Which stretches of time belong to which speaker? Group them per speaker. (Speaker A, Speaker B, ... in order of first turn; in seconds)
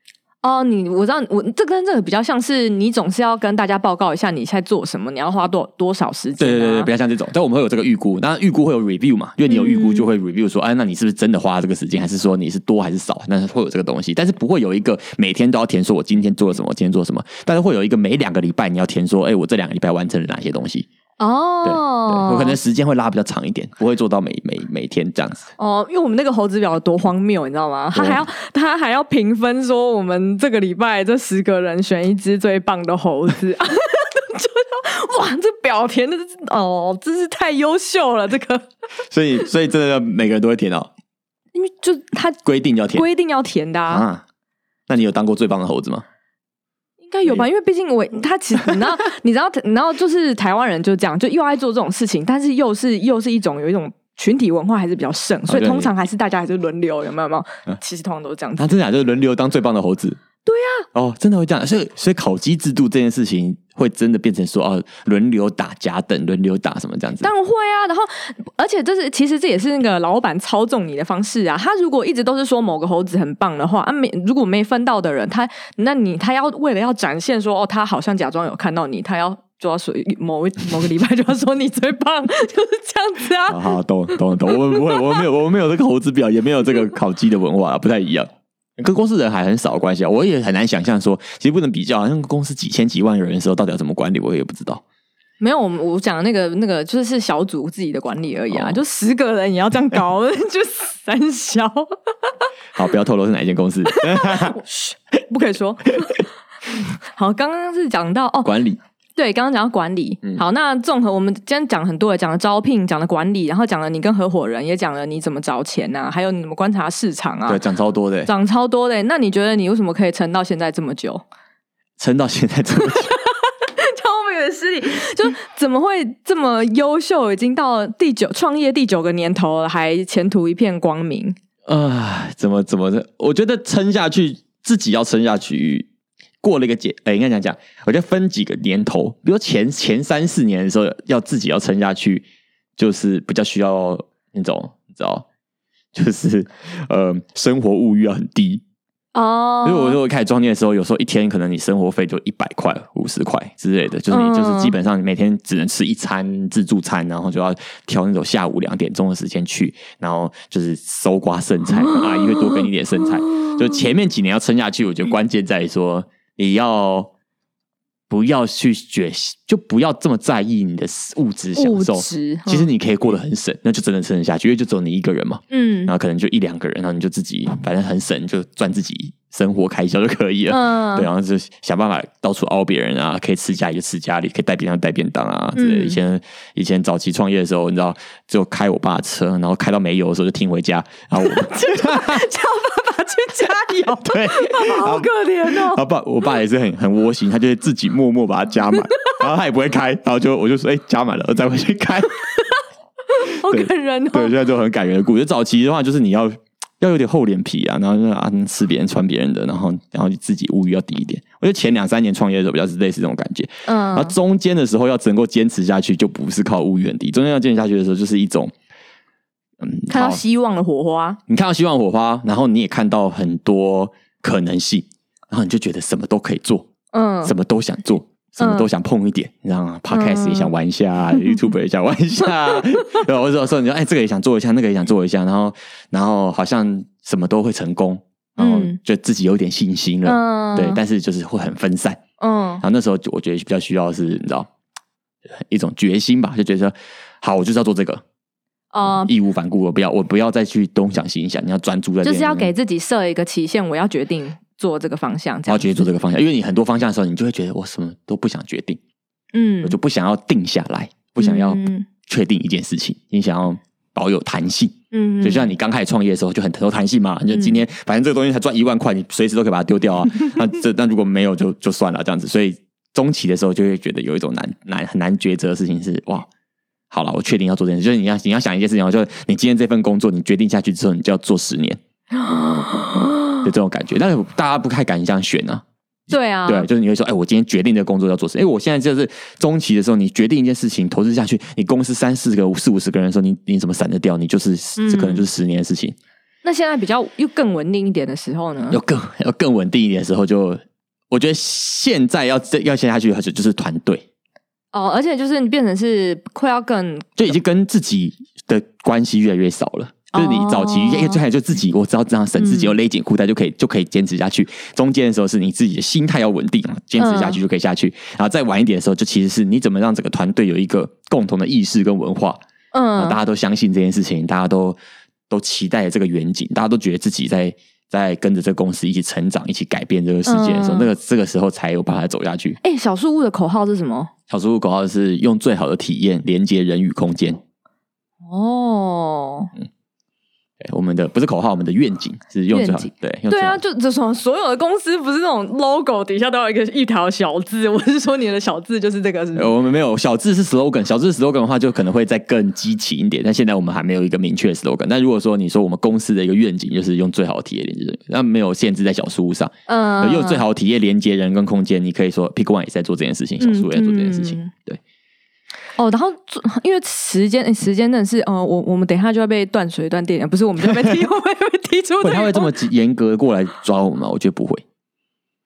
Speaker A: 0.4-6.9, 9.5-10.1, 21.2-22.6, 25.6-38.7, 41.5-42.4, 42.9-44.1, 47.0-58.7, 60.5-60.9, 67.2-85.2, 95.4-101.9, 103.9-106.2, 107.1-108.5, 109.2-117.6, 118.3-121.2, 122.8-131.4, 149.2-150.0, 154.1-154.8, 161.8-162.6, 163.3-163.6, 171.6-172.7, 175.5-175.9, 180.5-181.1, 185.6-186.0, 191.2-195.8, 203.1-204.3, 213.7-214.2, 219.9-221.2, 226.9-227.3, 228.4-228.7, 229.9-230.5, 238.4-238.8, 240.1-240.8, 242.2-242.6, 248.7-249.1, 252.0-255.9, 259.3-259.8, 261.2-261.9, 264.9-265.5, 267.3-267.6, 282.1-283.4, 286.1-286.7, 294.8-295.2, 296.4-298.8, 304.7-307.3, 310.1-311.2, 312.4-312.7, 317.0-317.4, 322.7-323.2, 330.3-330.9, 332.6-334.1, 338.2-339.5, 342.5-349.5, 359.7-360.4, 363.4-364.5, 365.8-372.5
Speaker B: 6.4-20.9, 21.6-25.5, 27.9-28.2, 39.1-40.9, 42.5-43.1, 43.9-44.2, 44.9-46.0, 55.5-55.9, 58.6-60.2, 60.9-67.3, 83.5-94.8, 98.5-98.8, 102.8-104.6, 108.4-108.8, 117.5-118.3, 122.0-123.2, 131.7-135.9, 136.4-142.2, 142.8-145.3, 145.9-148.6, 149.6-167.1, 168.1-192.3, 194.0-202.2, 203.5-218.5, 219.6-220.2, 221.3-226.7, 227.2-242.0, 242.6-244.5, 245.3-248.0, 248.8-252.5, 255.5-258.8, 259.6-276.3, 276.9-281.8, 283.4-296.0, 298.7-304.1, 307.2-322.4, 323.0-324.8, 325.3-332.6, 334.3-337.4, 340.6-343.6, 349.4-364.8, 370.6-371.0, 372.0-374.6